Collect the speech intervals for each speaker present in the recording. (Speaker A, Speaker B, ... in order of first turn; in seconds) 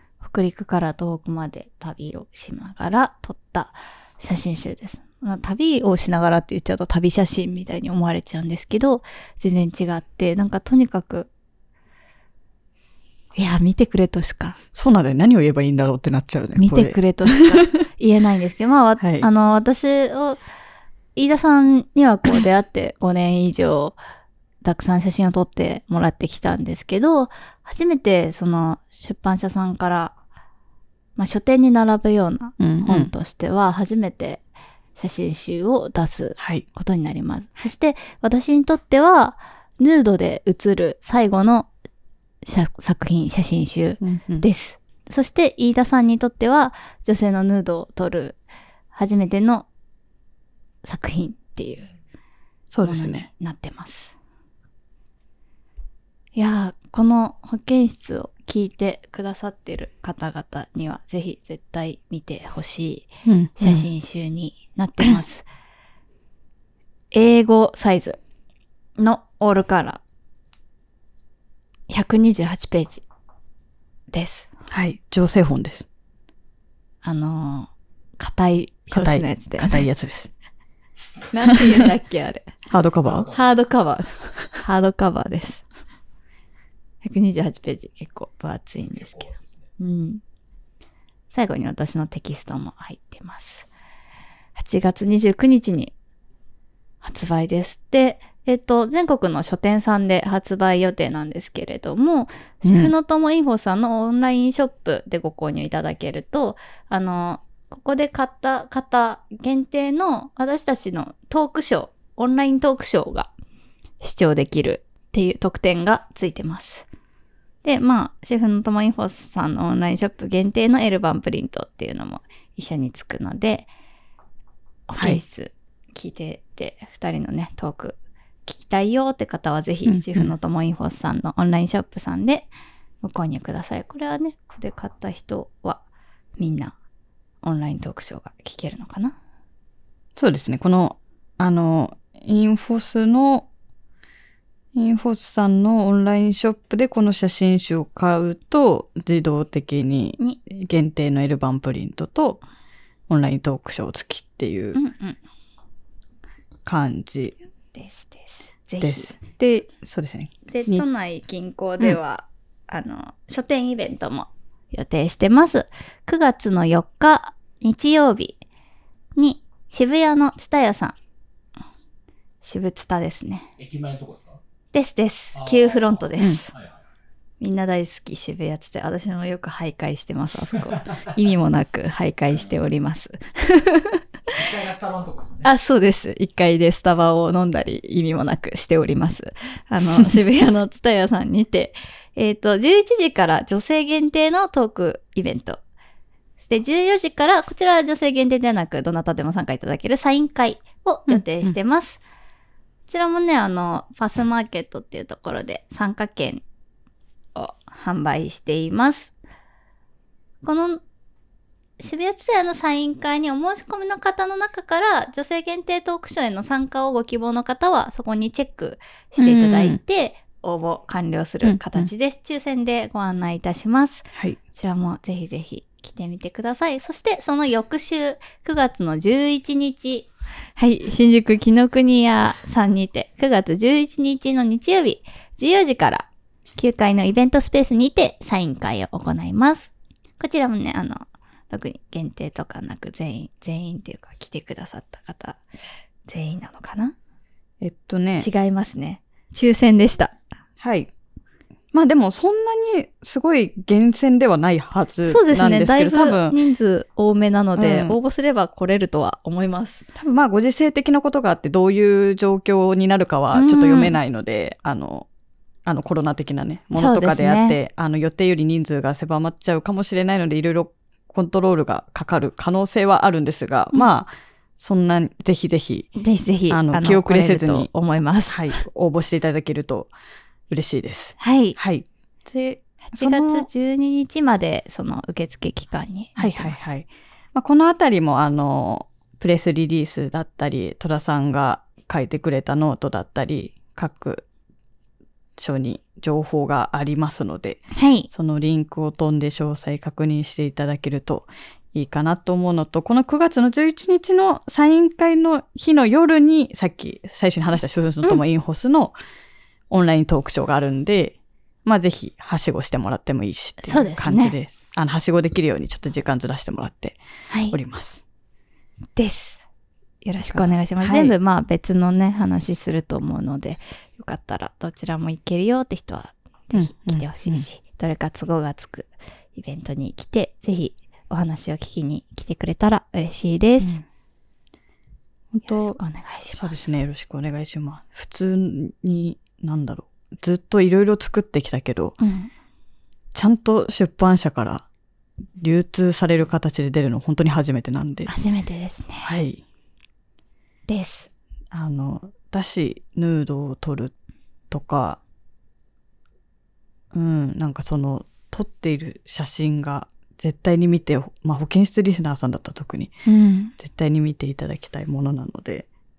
Speaker A: 0.2-11.3, 13.3-14.6, 16.6-20.4, 21.1-24.0, 24.6-30.1, 31.2-34.4, 35.0-41.7, 42.4-48.4, 48.9-49.7, 50.8-51.9, 52.8-54.1, 56.3-65.4, 67.1-68.2, 69.0-70.0, 71.9-73.0, 74.1-74.5, 77.0-79.8, 81.3-82.5, 83.3-85.6, 87.0-90.2, 91.3-93.7, 94.5-95.9, 97.0-113.3, 114.0-116.9, 117.6-123.7, 124.9-132.5, 133.0-135.8, 136.4-136.8, 137.4-139.2, 154.7-155.2, 157.7-159.2, 160.5-168.4, 169.2-170.9, 172.4-173.5, 174.7-176.5, 177.4-184.0, 185.4-195.6, 196.4-202.0, 202.9-206.4, 207.3-209.2, 210.4-210.8, 211.8-245.4, 246.1-246.9, 248.2-250.2, 255.0-259.9, 263.3-263.9, 266.7-267.6, 275.9-278.6, 281.2-281.6, 282.8-286.6, 297.7-298.1, 313.6-314.4, 317.3-317.6, 318.9-319.4, 320.0-333.8, 335.4-336.7, 342.0-342.3, 348.1-349.1, 350.7-351.1, 363.1-363.5
Speaker B: 14.7-17.0, 19.0-19.3, 32.6-33.1, 36.4-36.6, 44.0-44.5, 52.7-53.3, 63.2-63.9, 74.7-75.8, 78.9-80.3, 82.7-83.3, 102.6-102.9, 129.8-130.3, 140.2-143.5, 144.7-152.4, 153.1-154.8, 156.6-157.3, 158.8-160.8, 201.1-201.5, 219.2-219.8, 221.4-221.9, 247.6-248.3, 250.6-250.9, 251.7-256.4, 257.6-257.9, 259.9-265.1, 265.6-275.9, 276.5-277.7, 278.3-279.9, 280.5-283.5, 286.2-294.2, 295.4-308.9, 309.7-317.0, 317.5-318.0, 320.3-321.1, 326.5-327.4, 335.3-335.8, 336.3-342.0, 343.1-344.6, 345.4-348.1, 349.0-349.4, 351.5-353.9, 354.5-355.0, 356.9-362.9, 363.6-365.6
Speaker C: 83.0-83.6, 88.9-89.7, 173.6-174.4, 175.3-176.8, 184.3-185.5